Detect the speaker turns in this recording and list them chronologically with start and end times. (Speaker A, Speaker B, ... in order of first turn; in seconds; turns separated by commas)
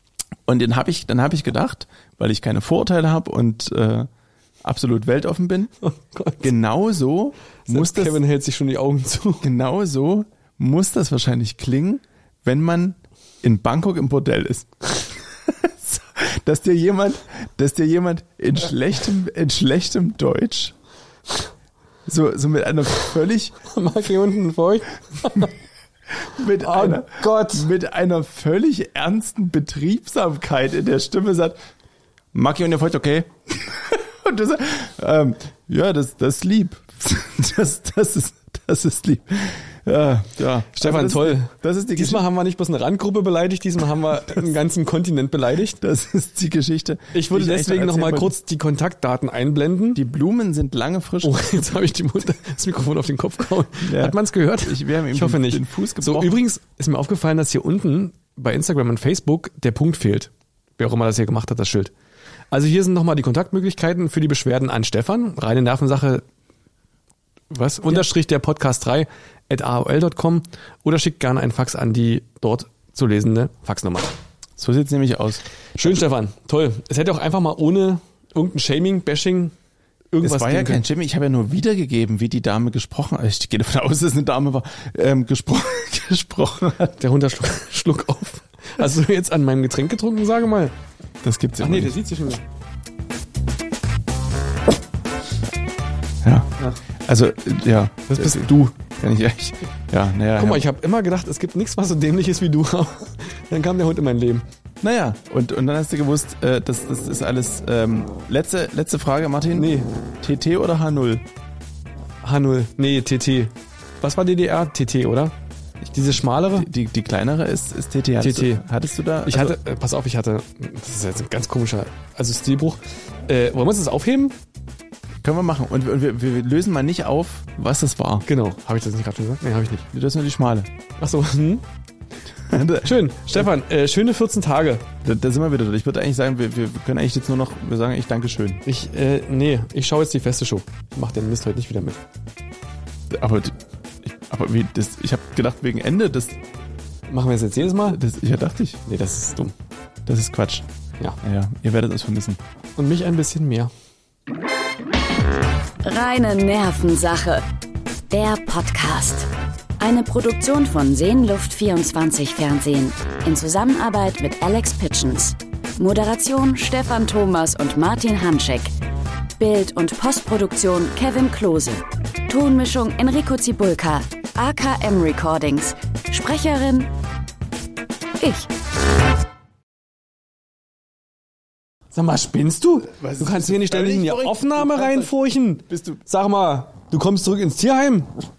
Speaker A: 0.5-4.1, Speaker A: 4.6-5.7, Speaker B: 5.8-6.5, Speaker A: 6.4-8.2, Speaker B: 7.7-9.5, Speaker A: 9.4-14.9, Speaker A: 15.5-20.8, Speaker A: 22.1-23.6, Speaker B: 23.7-25.5, Speaker A: 26.2-31.6, Speaker B: 26.6-27.7, Speaker A: 32.3-42.3, Speaker B: 40.7-45.8, Speaker A: 44.2-44.5, Speaker A: 45.8-48.4, Speaker B: 47.1-50.0, Speaker A: 50.0-51.7, Speaker B: 51.2-61.9, Speaker A: 53.8-56.4, Speaker B: 62.5-66.2, Speaker A: 67.5-68.1, Speaker B: 67.8-74.2, Speaker A: 74.6-76.0, Speaker B: 75.8-79.5, Speaker B: 80.1-80.8, Speaker A: 80.2-87.0, Speaker B: 87.0-90.7, Speaker A: 91.2-92.0, Speaker B: 91.6-92.4, Speaker A: 96.2-96.5, Speaker A: 97.0-100.7, Speaker B: 98.1-98.7, Speaker B: 100.4-104.5, Speaker A: 104.8-111.2, Speaker B: 109.5-109.9, Speaker B: 112.2-116.7, Speaker A: 116.5-119.6, Speaker B: 118.2-118.7, Speaker B: 119.2-124.3, Speaker A: 125.2-128.3, Speaker B: 128.3-129.9, Speaker A: 129.9-130.7, Speaker B: 131.0-131.7, Speaker A: 132.5-133.5, Speaker B: 132.8-134.9, Speaker A: 135.0-138.6, Speaker B: 138.7-142.0, Speaker A: 143.1-146.4, Speaker B: 147.1-148.0, Speaker A: 147.6-148.8, Speaker B: 148.9-149.5, Speaker A: 150.1-150.7, Speaker A: 151.2-152.4, Speaker B: 152.8-153.7, Speaker C: 155.8-157.4, Speaker C: 158.1-168.7, Speaker C: 169.4-176.9, Speaker C: 178.2-178.5, Speaker B: 181.9-188.1, Speaker A: 183.0-185.1, Speaker A: 185.7-186.0